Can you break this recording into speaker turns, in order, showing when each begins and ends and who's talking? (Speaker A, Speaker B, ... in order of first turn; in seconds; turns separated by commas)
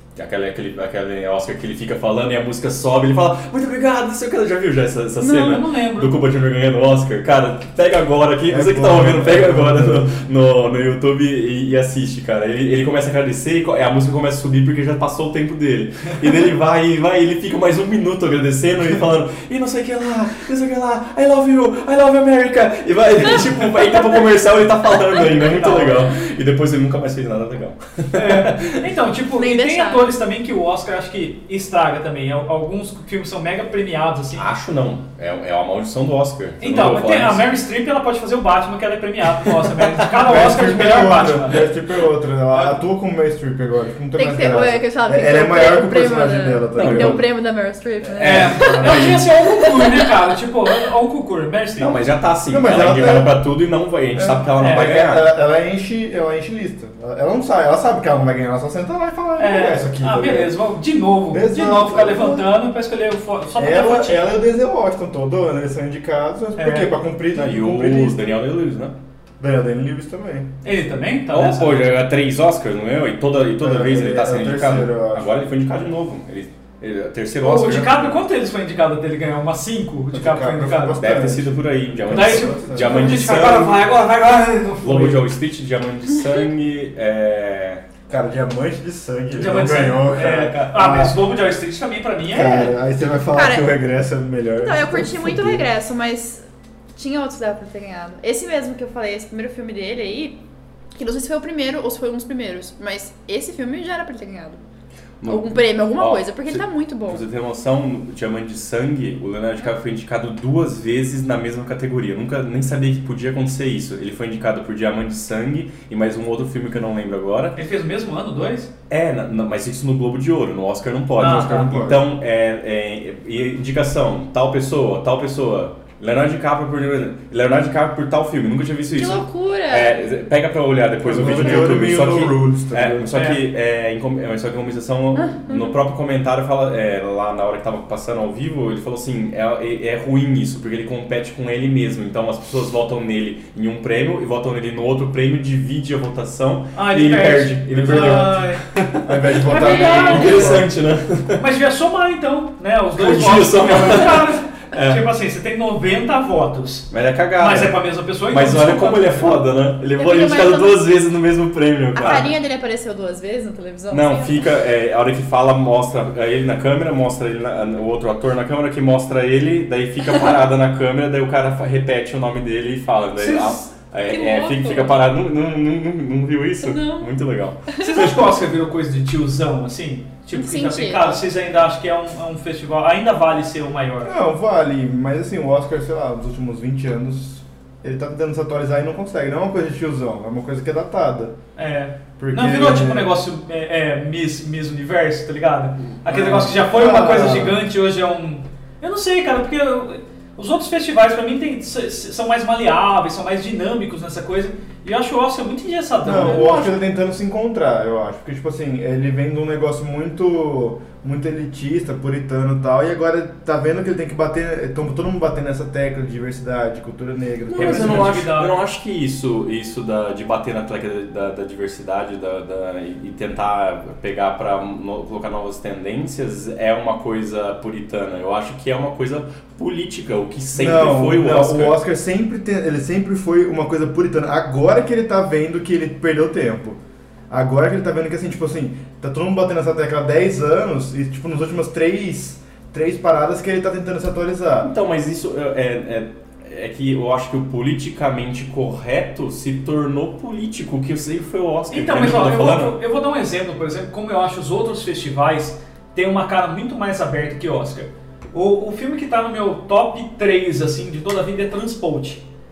Speaker A: 0.1-28.8, Speaker B: 5.2-5.6, Speaker C: 5.3-6.1, Speaker D: 8.5-10.1, Speaker C: 25.3-26.0, Speaker C: 28.1-34.5, Speaker B: 29.4-30.1, Speaker A: 34.4-37.5, Speaker C: 36.6-41.7, Speaker D: 40.2-47.2, Speaker C: 42.5-42.8, Speaker B: 44.1-50.2, Speaker A: 46.8-47.2, Speaker C: 48.2-52.0, Speaker D: 48.2-49.2, Speaker A: 48.2-49.1, Speaker A: 51.8-55.2, Speaker D: 52.5-53.4, Speaker D: 54.1-60.5, Speaker C: 54.6-55.0, Speaker C: 59.4-64.3, Speaker D: 61.3-62.5, Speaker D: 63.6-68.4, Speaker C: 66.6-66.9, Speaker A: 67.3-68.9, Speaker D: 69.4-70.5, Speaker C: 70.6-71.9, Speaker A: 71.3-78.1, Speaker D: 73.6-75.3, Speaker C: 77.4-81.0, Speaker D: 80.1-83.4, Speaker A: 81.0-83.8, Speaker C: 82.1-85.2, Speaker A: 84.8-87.8, Speaker D: 88.1-91.2, Speaker C: 89.3-92.7, Speaker D: 92.3-95.7, Speaker B: 93.3-93.7, Speaker B: 94.6-100.4, Speaker B: 101.0-104.6, Speaker A: 105.2-117.6, Speaker B: 105.2-107.2, Speaker C: 117.6-118.7, Speaker A: 118.9-151.4, Speaker D: 121.2-122.0, Speaker C: 121.2-121.6, Speaker B: 128.9-130.0, Speaker D: 131.0-133.2, Speaker C: 131.1-131.7, Speaker C: 133.1-133.4, Speaker B: 135.2-135.8, Speaker C: 146.7-148.7, Speaker D: 147.8-148.3, Speaker D: 149.1-150.7, Speaker C: 149.4-150.6, Speaker B: 149.5-150.4, Speaker C: 151.4-159.4, Speaker A: 153.0-155.0, Speaker A: 156.9-162.3, Speaker B: 160.0-160.8, Speaker B: 161.9-164.5, Speaker C: 162.0-162.3, Speaker A: 163.9-178.2, Speaker C: 173.2-173.6, Speaker B: 174.1-175.0, Speaker B: 176.6-177.1, Speaker B: 177.7-178.1, Speaker C: 177.8-184.1, Speaker B: 180.3-181.2, Speaker D: 184.0-191.3, Speaker C: 191.6-206.7, Speaker D: 192.2-193.2, Speaker D: 196.1-197.6, Speaker D: 206.0-218.3, Speaker A: 217.5-231.8, Speaker C: 217.5-218.6, Speaker D: 230.5-236.8, Speaker D: 237.3-244.7, Speaker A: 244.6-252.8, Speaker C: 251.7-262.2